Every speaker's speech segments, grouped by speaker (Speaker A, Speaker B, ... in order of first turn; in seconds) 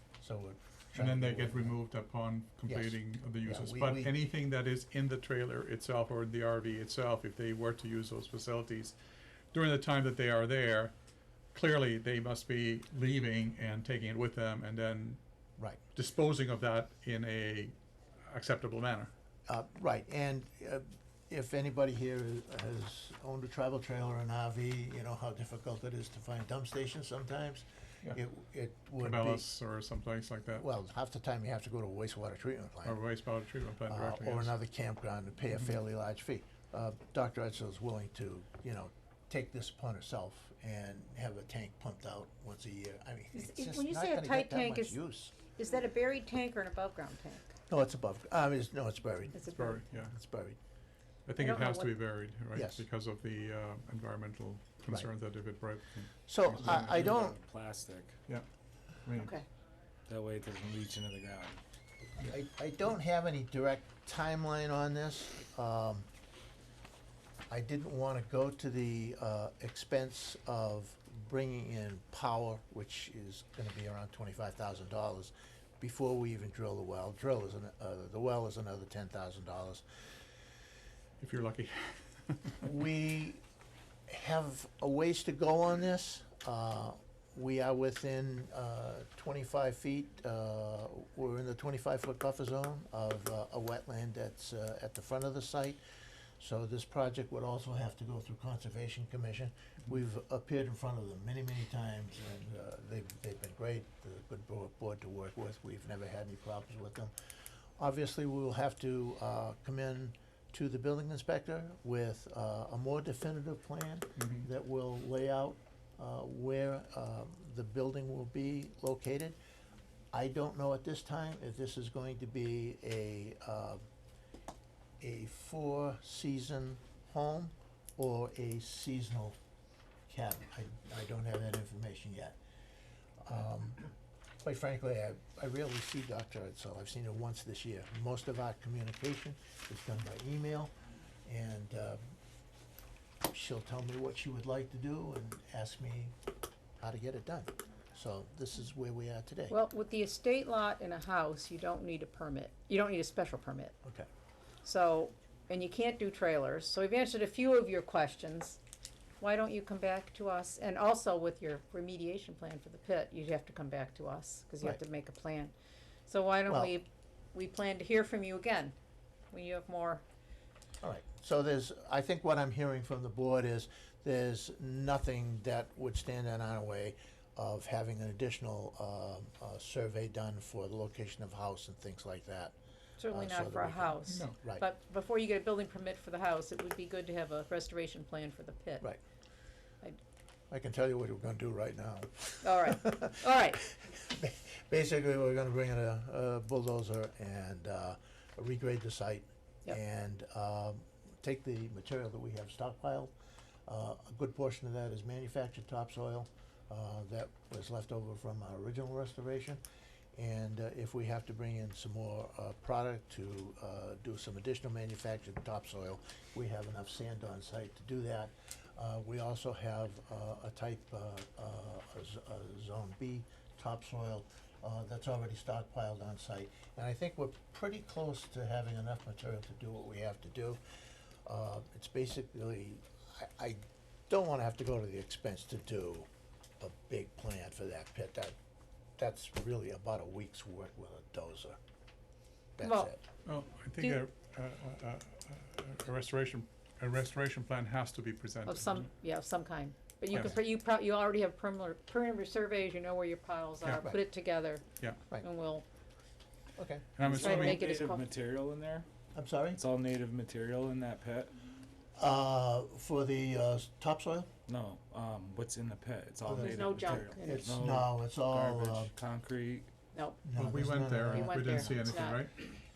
Speaker A: 0.2-1.8, 2.7-4.1, 19.5-29.5, 30.5-33.0, 33.8-45.3, 47.7-50.6, 52.5-52.8, 56.3-57.3, 62.2-66.1, 67.5-79.8, 82.6-83.4, 84.1-95.8, 96.4-107.1, 107.8-119.4, 120.1-123.8, 125.0-129.4, 130.1-132.4, 133.2-133.9, 134.4-140.7, 141.2-142.0, 143.3-146.1, 146.8-149.5, 153.8-154.1, 166.5-166.7, 170.8-182.5, 183.1-184.7, 190.5-203.1, 203.7-209.6, 210.1-230.6, 231.2-236.1, 236.6-238.3, 239.0-241.6, 242.6-243.0, 256.6-256.9, 259.1-259.6, 262.0-264.3, 266.2-268.9, 270.2-271.8
Speaker B: 1.0-9.0, 9.5-10.9, 11.5-15.2, 15.9-17.7, 18.3-19.1, 29.0-30.6, 32.8-34.5, 49.5-50.1, 51.2-56.9, 59.0-59.3, 81.2-82.7, 114.2-114.5, 184.1-184.3, 243.2-248.8, 257.0-257.6, 270.3-272.3
Speaker C: 43.3-47.5, 49.3-49.8, 51.4-51.9, 59.1-59.5, 149.5-153.7, 154.6-158.6, 159.2-165.5, 166.1-168.7, 169.3-170.0, 183.0-188.9, 192.4-193.6, 242.6-242.9, 248.5-255.7, 257.1-258.1, 266.4-267.4, 269.9-270.2, 271.1-272.5
Speaker D: 56.5-58.2, 60.1-61.6, 257.1-258.9, 259.5-261.4, 264.5-269.7